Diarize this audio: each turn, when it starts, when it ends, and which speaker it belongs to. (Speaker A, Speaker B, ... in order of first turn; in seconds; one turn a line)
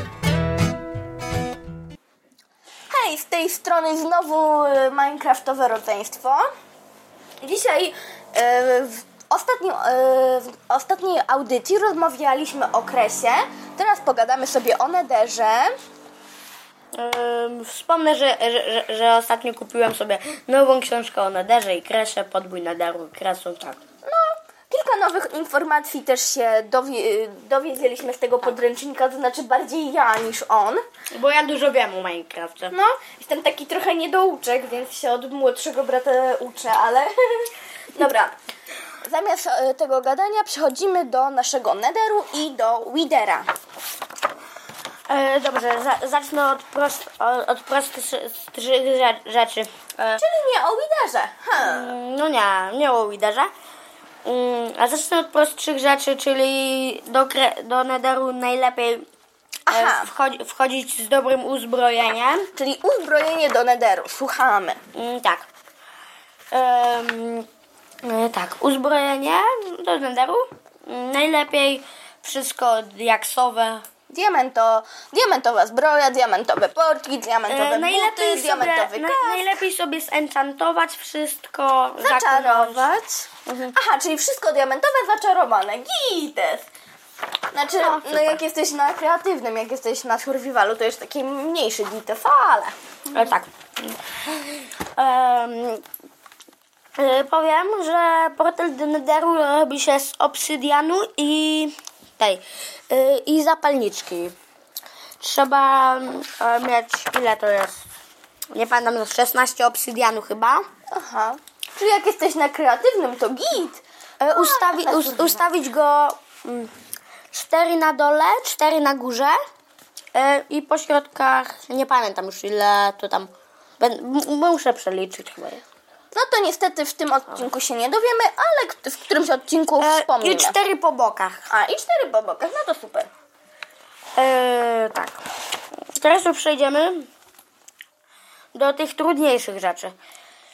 Speaker A: 2.9-6.5
Speaker A: 7.4-15.7
Speaker B: 17.0-23.8
Speaker A: 24.0-30.8
Speaker B: 31.1-32.7
Speaker A: 32.7-38.3
Speaker A: 39.0-43.5
Speaker B: 45.1-50.2
Speaker A: 50.2-51.9
Speaker B: 51.6-53.5
Speaker B: 54.2-59.0
Speaker A: 59.7-60.1
Speaker B: 59.7-62.5
Speaker A: 62.6-64.8
Speaker B: 64.9-65.5
Speaker B: 66.5-67.5
Speaker B: 68.0-73.8
Speaker A: 74.1-79.5
Speaker B: 77.5-82.8
Speaker A: 82.0-86.7
Speaker B: 83.5-83.8
Speaker A: 87.5-93.3
Speaker B: 87.7-88.4
Speaker B: 93.1-94.0
Speaker B: 95.0-95.8
Speaker B: 97.0-104.3
Speaker B: 105.2-107.8
Speaker B: 108.5-110.7
Speaker A: 110.9-115.5
Speaker B: 114.2-116.7
Speaker B: 117.3-119.4
Speaker B: 120.1-125.6
Speaker A: 126.1-130.6
Speaker B: 129.8-131.4
Speaker A: 131.5-133.1
Speaker B: 134.2-135.2
Speaker B: 136.0-137.1
Speaker B: 138.6-139.9